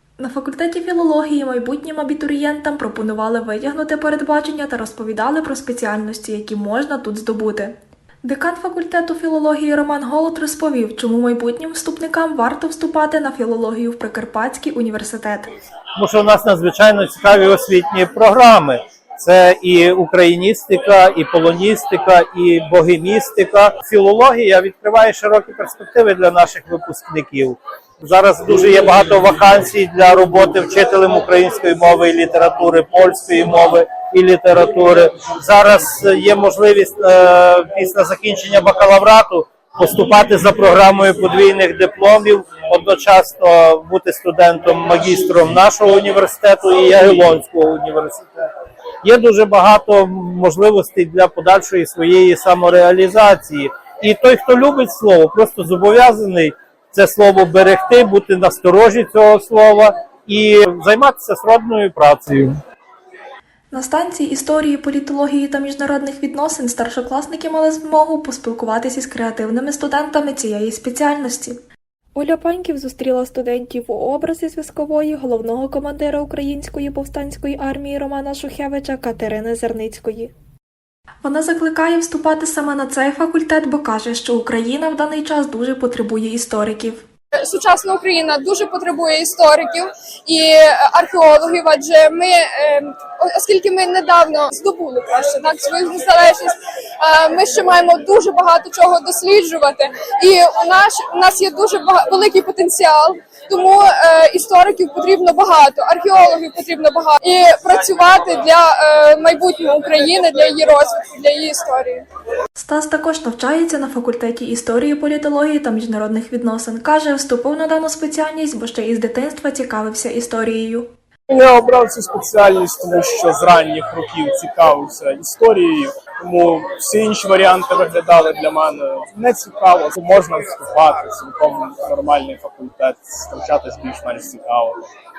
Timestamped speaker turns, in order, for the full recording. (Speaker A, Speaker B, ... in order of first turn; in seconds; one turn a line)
Speaker A: 0.2-15.5
Speaker B: 16.0-48.4
Speaker B: 49.0-62.5
Speaker A: 63.7-71.6
Speaker A: 72.2-80.3
Speaker A: 81.2-87.0
Speaker C: 87.4-112.0
Speaker A: 112.6-120.9
Speaker D: 121.3-134.8